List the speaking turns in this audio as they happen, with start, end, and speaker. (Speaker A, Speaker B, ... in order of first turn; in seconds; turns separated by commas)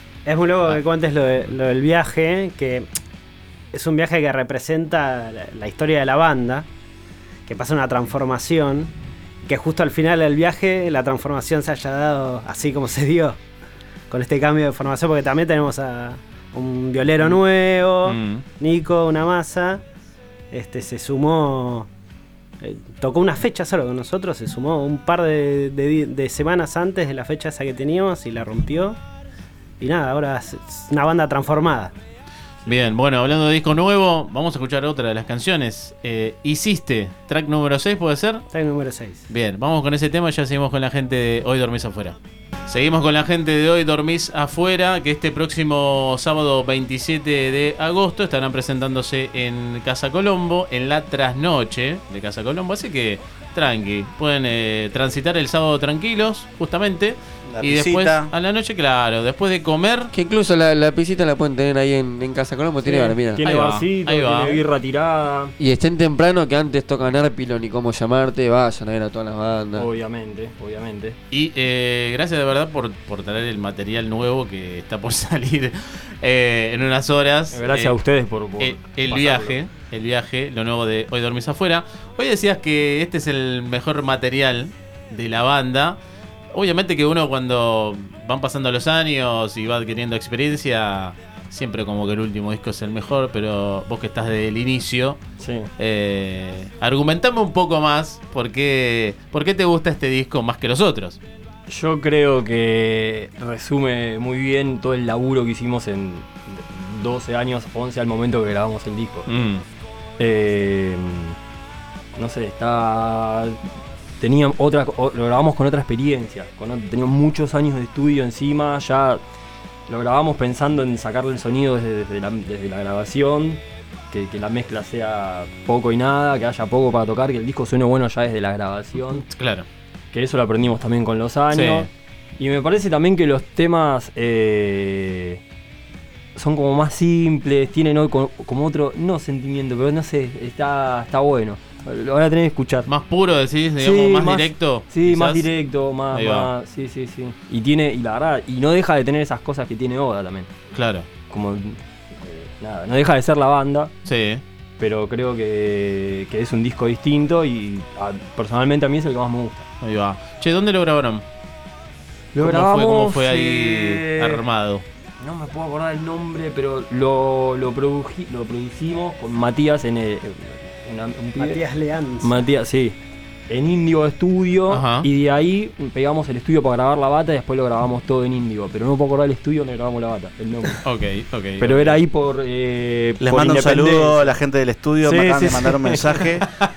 Speaker A: 0.2-2.9, Speaker A: 3.7-6.7, Speaker A: 7.5-8.9, Speaker A: 9.5-13.4, Speaker A: 14.1-19.8, Speaker B: 18.1-18.4, Speaker A: 20.5-21.9, Speaker A: 22.6-29.0, Speaker A: 29.8-31.9, Speaker B: 32.7-38.5, Speaker A: 38.5-39.2, Speaker B: 39.3-60.1, Speaker C: 57.6-58.0, Speaker D: 60.1-63.4, Speaker E: 62.8-65.5, Speaker B: 63.4-64.6, Speaker D: 65.6-69.9, Speaker E: 69.8-71.2, Speaker B: 71.3-78.0, Speaker E: 77.5-79.6, Speaker B: 78.6-86.0, Speaker B: 86.5-95.2, Speaker E: 95.4-95.7, Speaker B: 95.8-101.2, Speaker E: 101.7-109.3, Speaker B: 109.3-109.7, Speaker E: 110.2-111.4, Speaker E: 112.2-113.6, Speaker E: 114.2-119.2, Speaker E: 119.9-129.2, Speaker B: 129.1-129.7, Speaker E: 130.1-135.4, Speaker B: 131.5-131.9, Speaker E: 136.3-142.9, Speaker B: 142.9-145.5, Speaker E: 143.8-150.5, Speaker B: 146.1-146.5, Speaker B: 150.7-151.1, Speaker E: 151.3-153.9, Speaker B: 154.1-154.4, Speaker E: 154.8-159.7, Speaker B: 159.8-161.2, Speaker E: 162.3-164.4, Speaker B: 162.4-164.8, Speaker E: 165.2-171.6, Speaker A: 171.4-172.4, Speaker E: 172.2-173.0, Speaker E: 173.5-180.8, Speaker B: 174.7-175.1, Speaker B: 180.8-182.0, Speaker E: 181.6-184.3, Speaker C: 183.2-186.4, Speaker E: 185.0-186.3